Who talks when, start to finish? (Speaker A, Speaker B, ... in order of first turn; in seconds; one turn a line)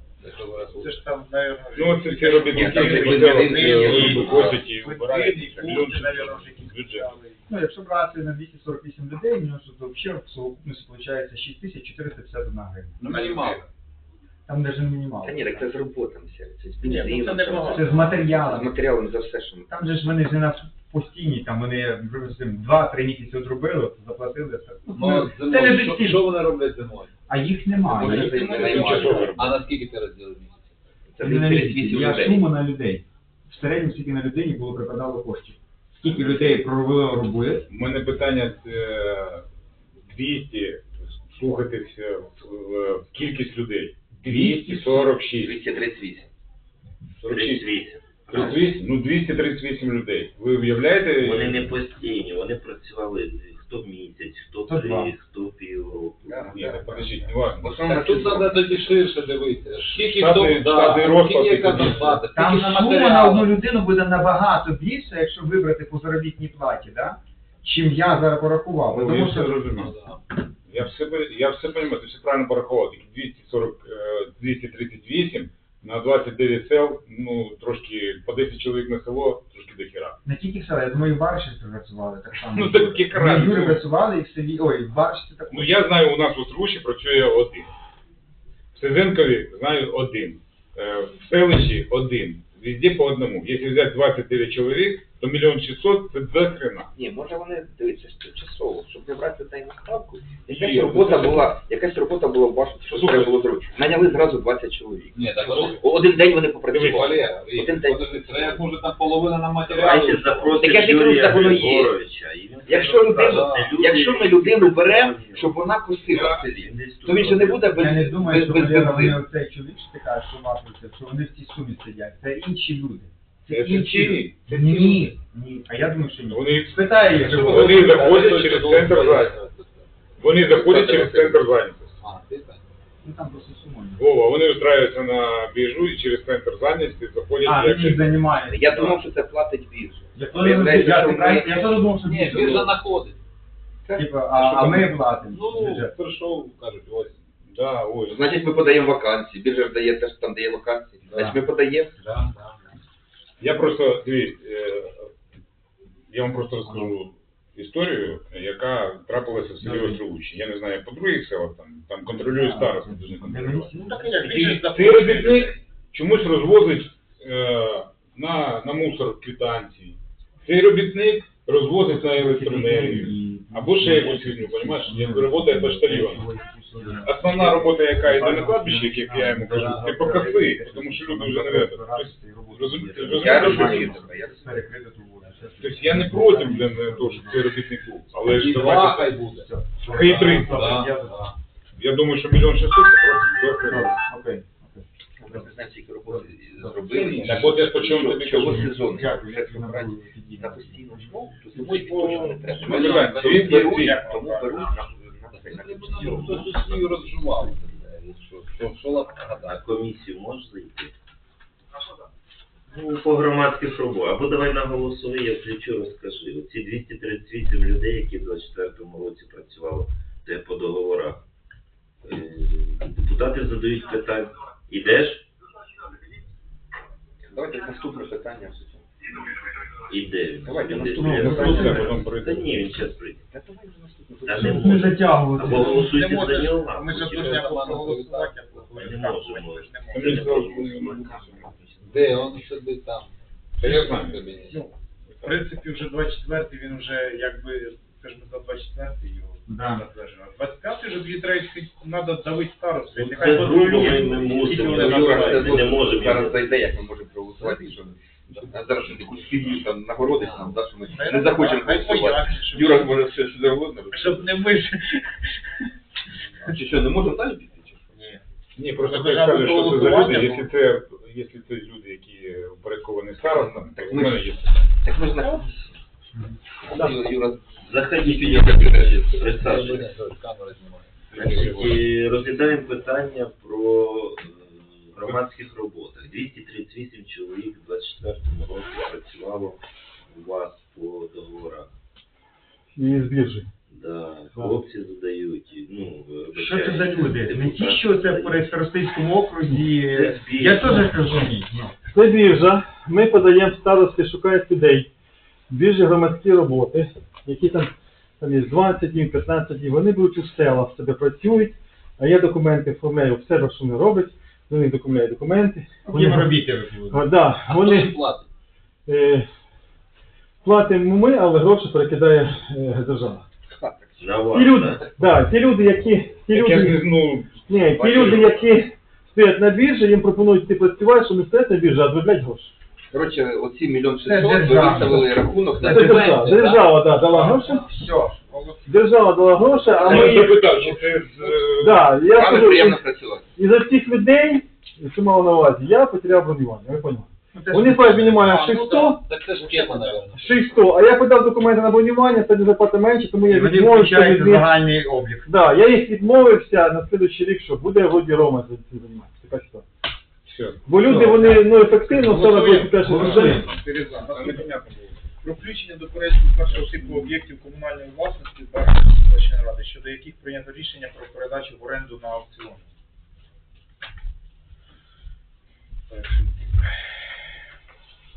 Speaker A: 0.2-1.0
Speaker B: 0.7-7.5
Speaker C: 1.7-7.1
Speaker D: 2.4-4.7
Speaker D: 5.5-5.8
Speaker E: 7.5-13.1
Speaker A: 13.0-13.7
Speaker D: 13.1-13.6
Speaker E: 14.5-15.4
Speaker D: 15.2-19.7
Speaker B: 16.8-17.9
Speaker E: 17.6-18.8
Speaker E: 19.7-26.2
Speaker A: 24.9-27.1
Speaker E: 27.3-29.2
Speaker D: 27.9-29.3
Speaker A: 28.0-30.8
Speaker B: 28.2-28.6
Speaker C: 28.5-29.6
Speaker D: 31.1-32.5
Speaker E: 31.2-37.6
Speaker C: 37.7-39.5
Speaker C: 40.0-45.6
Speaker E: 44.3-44.9
Speaker D: 44.6-46.3
Speaker C: 47.2-47.6
Speaker F: 47.2-48.8
Speaker C: 48.3-51.7
Speaker F: 51.2-56.7
Speaker E: 54.7-55.1
Speaker D: 56.3-59.0
Speaker C: 56.5-58.0
Speaker A: 57.9-63.6
Speaker C: 59.9-62.2
Speaker E: 62.3-69.7
Speaker C: 68.9-69.9
Speaker A: 69.8-70.2
Speaker C: 70.7-80.2
Speaker E: 80.2-85.8
Speaker C: 82.5-83.8
Speaker C: 85.5-87.7
Speaker C: 88.7-96.9
Speaker D: 96.9-108.7
Speaker C: 100.5-101.5
Speaker C: 102.9-103.3
Speaker A: 105.1-106.0
Speaker C: 106.7-107.0
Speaker A: 106.9-110.3
Speaker F: 109.7-115.6
Speaker D: 109.9-112.0
Speaker D: 112.6-119.2
Speaker A: 113.2-113.8
Speaker C: 116.1-116.4
Speaker F: 116.1-117.8
Speaker E: 117.7-128.5
Speaker C: 123.5-124.4
Speaker A: 124.6-125.1
Speaker C: 126.3-129.3
Speaker A: 127.2-129.9
Speaker C: 130.2-132.0
Speaker D: 130.4-131.4
Speaker A: 132.0-132.6
Speaker E: 133.0-134.0
Speaker C: 134.0-139.0
Speaker E: 137.4-138.7
Speaker D: 138.4-141.7
Speaker E: 140.1-142.8
Speaker A: 141.9-143.2
Speaker D: 143.8-144.2
Speaker E: 143.9-145.9
Speaker A: 144.4-147.2
Speaker C: 147.4-148.3
Speaker D: 148.1-151.9
Speaker E: 151.1-151.4
Speaker A: 152.0-152.7
Speaker C: 153.4-155.1
Speaker C: 156.1-176.3
Speaker E: 159.6-160.0
Speaker E: 162.1-164.2
Speaker B: 163.7-165.6
Speaker E: 171.9-187.4
Speaker C: 177.0-184.1
Speaker A: 179.5-180.0
Speaker D: 183.0-184.6
Speaker C: 185.6-189.2
Speaker A: 188.3-191.3
Speaker E: 188.9-191.2
Speaker C: 189.9-190.6
Speaker C: 191.7-194.0
Speaker E: 193.6-195.5
Speaker D: 195.2-207.7
Speaker E: 196.1-197.0
Speaker C: 197.2-198.8
Speaker E: 198.6-201.2
Speaker A: 201.5-202.6
Speaker B: 202.2-204.7
Speaker C: 202.5-204.0
Speaker A: 205.3-209.6
Speaker F: 209.4-210.9
Speaker F: 212.7-221.2
Speaker F: 222.0-225.3
Speaker D: 227.2-229.1
Speaker F: 229.9-233.2
Speaker D: 230.4-232.1
Speaker E: 230.9-231.9
Speaker C: 231.0-232.8
Speaker D: 233.3-234.9
Speaker F: 234.2-237.5
Speaker E: 234.4-236.0
Speaker B: 235.5-240.7
Speaker A: 236.9-238.9
Speaker F: 238.8-242.2
Speaker C: 239.9-241.9
Speaker A: 241.8-244.6
Speaker C: 243.6-244.3
Speaker B: 244.4-256.0
Speaker E: 249.5-249.9
Speaker F: 252.9-256.7
Speaker D: 254.4-264.4
Speaker A: 257.4-257.7
Speaker A: 258.3-258.6
Speaker C: 258.7-259.6
Speaker A: 260.1-260.6
Speaker B: 260.9-262.9
Speaker B: 263.9-265.7
Speaker D: 266.4-268.2
Speaker C: 268.6-274.5
Speaker B: 268.8-270.5
Speaker D: 273.2-275.8
Speaker D: 276.6-279.3
Speaker F: 277.6-279.9
Speaker A: 279.1-281.8
Speaker F: 281.1-291.7
Speaker C: 281.2-281.7
Speaker D: 281.3-281.7
Speaker G: 292.8-293.5
Speaker F: 293.7-298.5
Speaker E: 296.3-301.8
Speaker F: 299.9-301.0
Speaker G: 301.9-304.9
Speaker G: 305.5-316.4
Speaker E: 315.8-317.1
Speaker G: 316.9-318.0
Speaker A: 317.4-318.3
Speaker G: 318.9-319.3
Speaker G: 320.4-323.2
Speaker D: 323.5-324.3
Speaker F: 324.0-324.9
Speaker G: 324.3-326.9
Speaker C: 326.3-328.5
Speaker G: 327.5-332.5
Speaker D: 327.8-328.4
Speaker D: 332.9-336.4
Speaker E: 334.0-335.1
Speaker A: 335.5-336.9
Speaker G: 335.6-337.6
Speaker E: 337.0-338.3
Speaker B: 338.3-338.8
Speaker G: 338.6-340.4
Speaker D: 339.5-340.2
Speaker C: 339.7-342.0
Speaker A: 340.3-341.5
Speaker G: 341.6-342.8
Speaker D: 342.0-343.3
Speaker G: 343.4-349.0
Speaker E: 347.3-348.4
Speaker B: 348.1-350.0
Speaker A: 348.9-350.8
Speaker G: 350.1-354.6
Speaker E: 353.2-355.4
Speaker G: 355.2-359.6
Speaker C: 360.2-360.6
Speaker G: 360.6-363.4
Speaker E: 360.8-361.2
Speaker B: 361.0-364.5
Speaker E: 362.8-363.5
Speaker C: 364.0-365.0
Speaker B: 365.2-372.7
Speaker B: 375.9-376.6